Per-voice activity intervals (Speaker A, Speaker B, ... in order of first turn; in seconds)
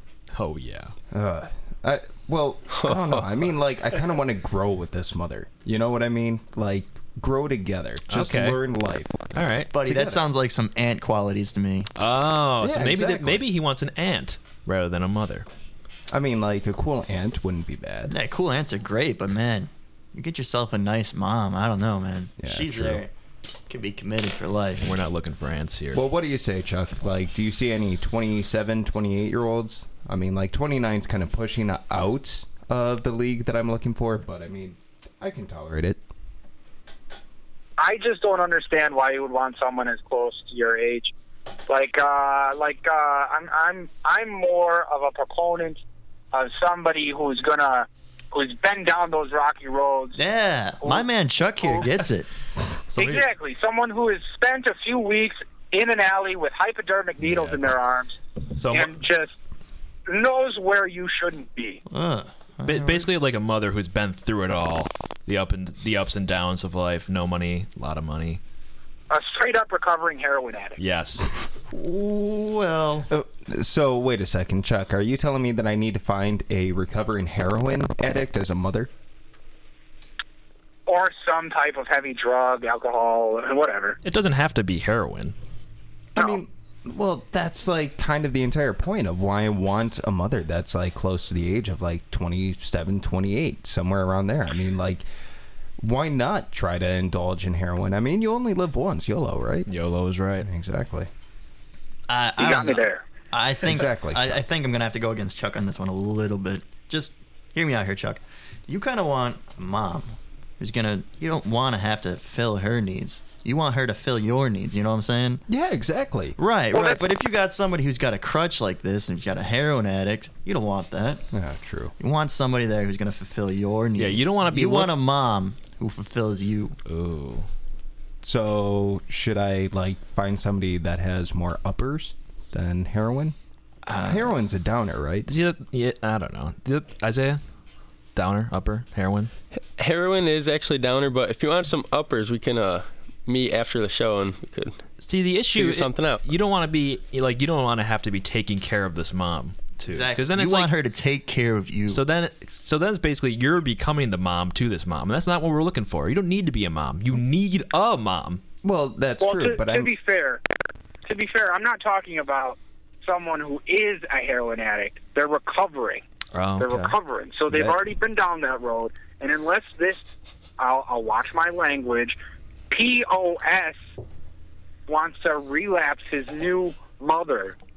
Speaker A: 0.3-0.9, 8.1-8.6, 9.3-9.7, 12.0-15.5, 24.8-26.0, 57.2-57.6, 58.6-58.9, 62.6-68.4, 70.8-71.3, 84.0-85.3, 99.7-100.5, 124.0-124.9, 126.9-127.5, 135.3-137.4, 138.2-139.3, 145.0-150.7, 151.9-158.4, 166.3-166.9
Speaker B: 1.1-9.2, 9.8-10.2, 12.6-13.4, 16.1-18.1, 22.4-23.0, 25.9-36.0, 73.1-78.9, 86.2-95.0, 95.8-99.7, 100.4-101.1, 103.6-104.4, 115.5-116.4, 121.3-121.9, 128.2-133.3, 133.9-135.3, 158.6-159.9, 167.5-167.8
Speaker C: 2.7-3.3, 139.6-144.8, 145.5-146.2
Speaker D: 9.7-11.9, 18.1-23.1, 23.7-25.0, 50.2-52.3, 61.9-63.1, 71.7-73.1, 102.1-115.4, 116.4-121.2, 122.0-126.8, 133.9-134.3, 149.9-152.0
Speaker E: 37.8-41.1, 41.7-45.8, 46.3-50.2, 50.8-51.1, 53.0-58.1, 58.7-59.4, 60.1-61.8, 69.1-70.8, 80.9-84.0, 102.4-103.0, 116.7-117.0, 159.2-160.4, 161.1-166.0, 166.6-170.1, 170.6-172.2, 172.7-173.8, 174.9-177.6